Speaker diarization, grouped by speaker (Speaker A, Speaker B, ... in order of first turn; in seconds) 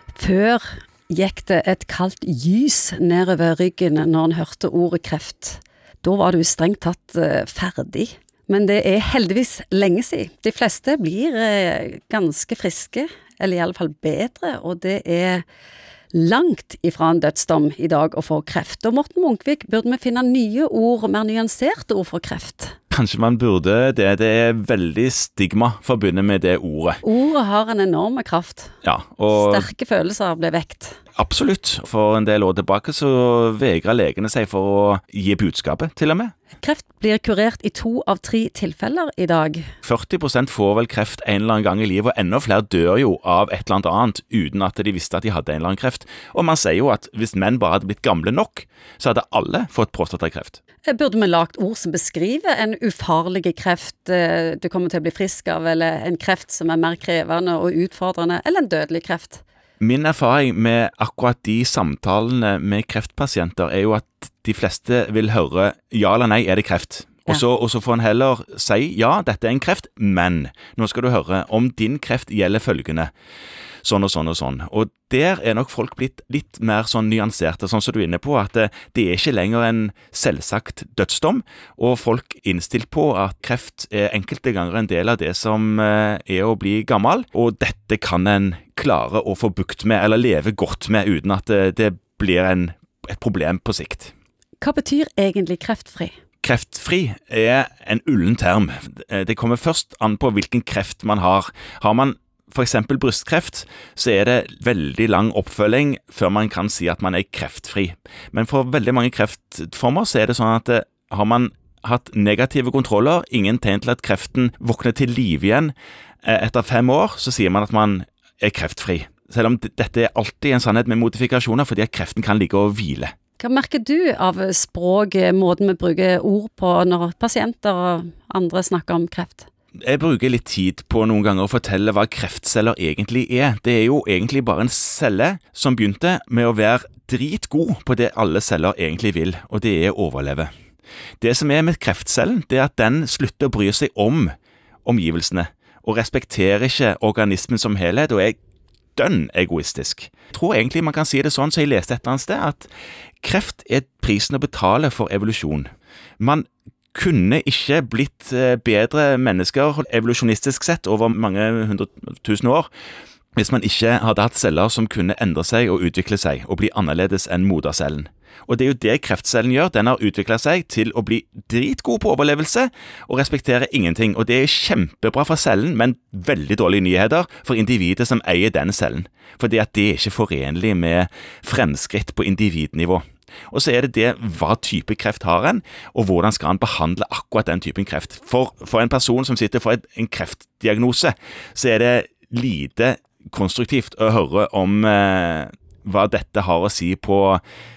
Speaker A: 0.1-15.4, 16.1-22.8, 27.0-28.7, 29.3-31.0, 36.6-39.7, 50.8-59.4, 94.6-96.1, 123.4-129.5
Speaker B: 22.9-27.0, 28.8-29.6, 31.1-36.3, 39.8-50.6, 59.8-73.1, 73.8-94.1, 96.4-123.1, 129.8-140.5, 141.2-144.3, 144.8-148.4, 148.9-152.7, 153.2-162.7, 163.3-197.4